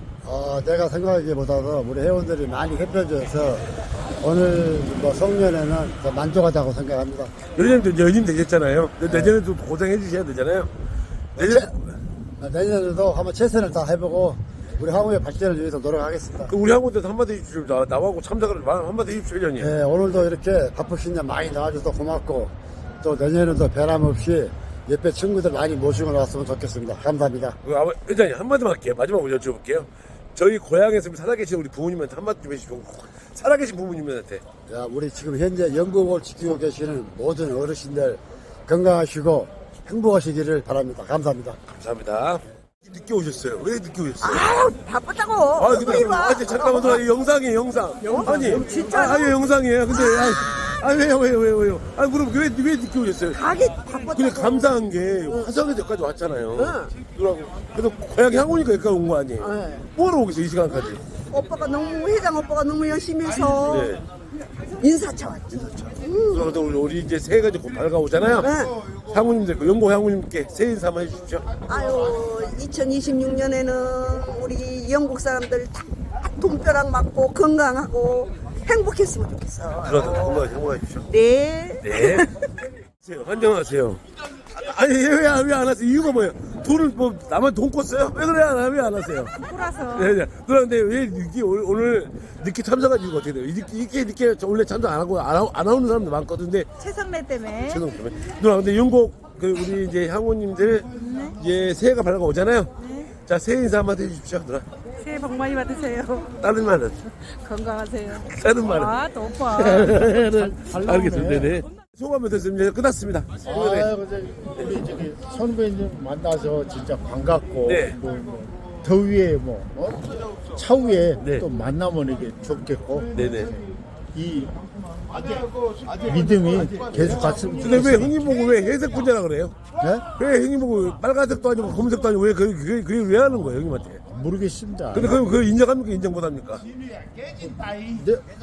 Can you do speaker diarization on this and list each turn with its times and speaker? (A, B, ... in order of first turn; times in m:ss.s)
0:00.2-0:03.6 A
0:04.2-0:07.3 A
0:07.6-0:10.7 B
0:09.0-0:09.4 A
0:11.3-0:11.9 B
0:11.4-0:11.7 A
0:12.4-0:16.5 A
0:16.5-0:19.8 B
0:19.6-0:27.6 A
0:27.6-0:34.4 B
0:34.7-0:41.6 A
0:41.7-0:44.5 B
0:44.2-0:47.0 C
0:45.6-0:53.5 B
0:48.0-0:50.8 C
0:53.3-0:54.7 C
0:54.0-1:01.0 B
0:56.5-0:56.9 C
0:59.4-0:59.8 C
1:01.3-1:03.9 C
1:03.6-1:04.0 B
1:04.8-1:06.5 C
1:05.5-1:08.5 B
1:08.3-1:08.7 C
1:09.1-1:11.5 B
1:11.7-1:20.4 C
1:19.8-1:21.0 B
1:21.1-1:22.3 C
1:21.8-1:22.3 B
1:23.0-1:36.7 B
1:29.4-1:30.1 D
1:36.8-1:37.8 D
1:37.5-1:44.7 B
1:41.0-1:41.3 D
1:42.8-1:43.1 D
1:45.0-1:46.3 D
1:46.4-1:47.0 B
1:47.2-1:49.9 D
1:48.1-1:53.9 B
1:50.2-1:51.5 E
1:53.4-2:03.1 E
1:57.7-1:58.0 B
2:03.1-2:03.5 B
2:04.1-2:04.5 E
2:06.0-2:08.1 E
2:07.6-2:09.5 B
2:10.2-2:14.0 B
2:14.1-2:15.2 E
2:14.9-2:16.6 B
2:17.4-2:18.2 E